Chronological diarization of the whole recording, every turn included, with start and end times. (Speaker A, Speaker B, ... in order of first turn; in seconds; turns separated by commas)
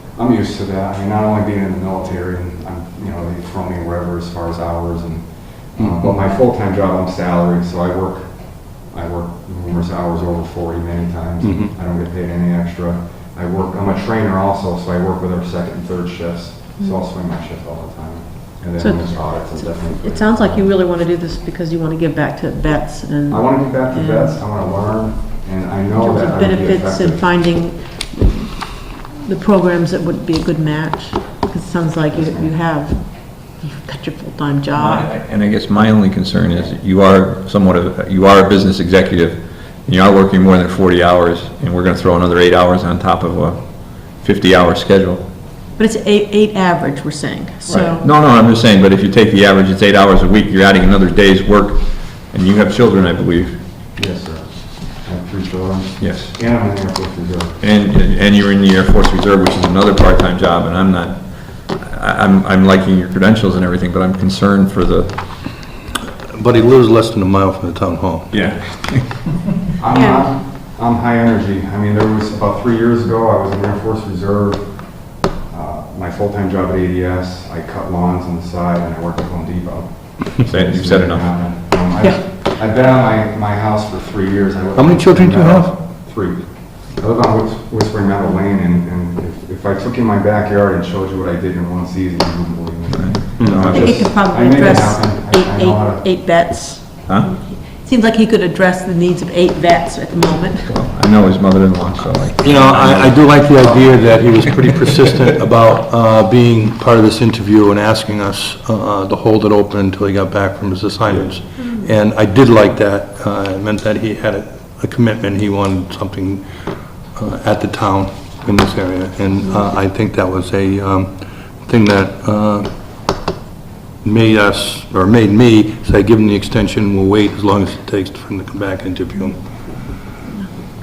Speaker A: 0.1-20.7, Speaker B: 5.8-6.2, Speaker B: 11.4-11.7, Speaker C: 18.8-24.4, Speaker A: 23.3-27.3, Speaker C: 25.9-35.1, Speaker A: 32.1-32.5, Speaker D: 34.7-45.2, Speaker C: 45.8-48.1, Speaker D: 47.9-53.7, Speaker A: 54.0-57.6, Speaker D: 56.0-56.4, Speaker D: 57.6-65.5, Speaker B: 66.3-68.4, Speaker D: 68.3-69.3, Speaker A: 69.8-96.2, Speaker C: 69.9-70.3, Speaker D: 80.4-81.5, Speaker C: 82.0-82.2, Speaker B: 84.8-85.8, Speaker D: 92.9-93.9, Speaker B: 93.4-93.9, Speaker C: 93.7-100.7, Speaker D: 97.1-97.3, Speaker D: 100.7-103.9, Speaker B: 102.4-122.7, Speaker C: 111.6-111.8, Speaker B: 124.0-129.5